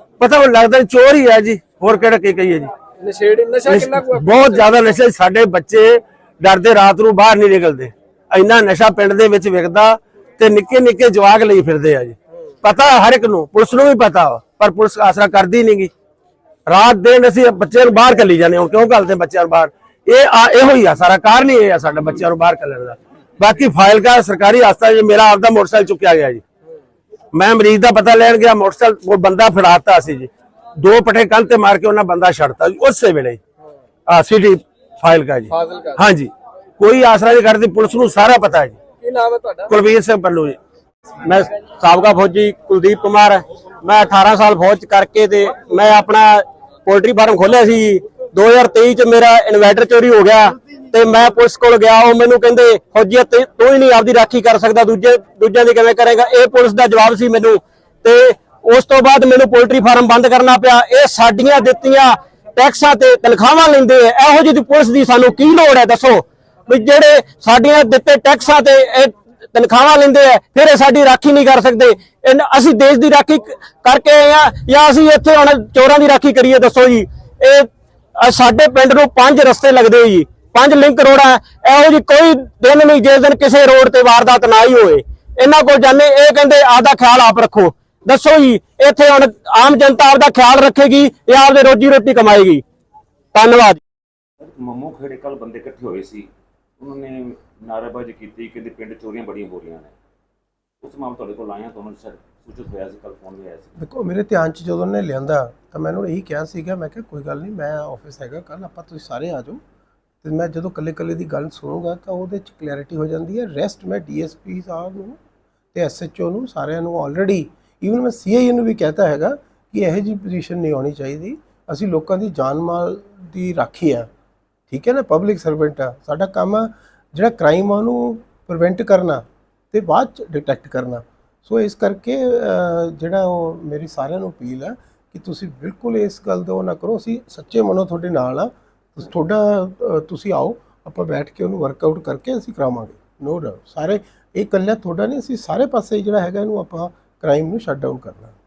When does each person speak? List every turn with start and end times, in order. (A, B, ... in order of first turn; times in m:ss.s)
0:00.2-0:02.7 A
0:03.0-0:04.7 B
0:03.6-0:15.9 A
0:16.7-0:26.4 A
0:27.3-0:33.4 A
0:34.1-0:38.8 A
0:35.5-0:36.0 B
0:39.0-0:39.7 B
0:39.7-0:40.6 A
0:41.2-1:32.6 C
1:33.3-1:33.8 C
1:34.4-1:39.9 D
1:40.8-1:43.7 D
1:43.8-1:49.6 E
1:50.2-1:55.2 E
1:55.7-2:04.1 E
2:04.7-2:28.3 E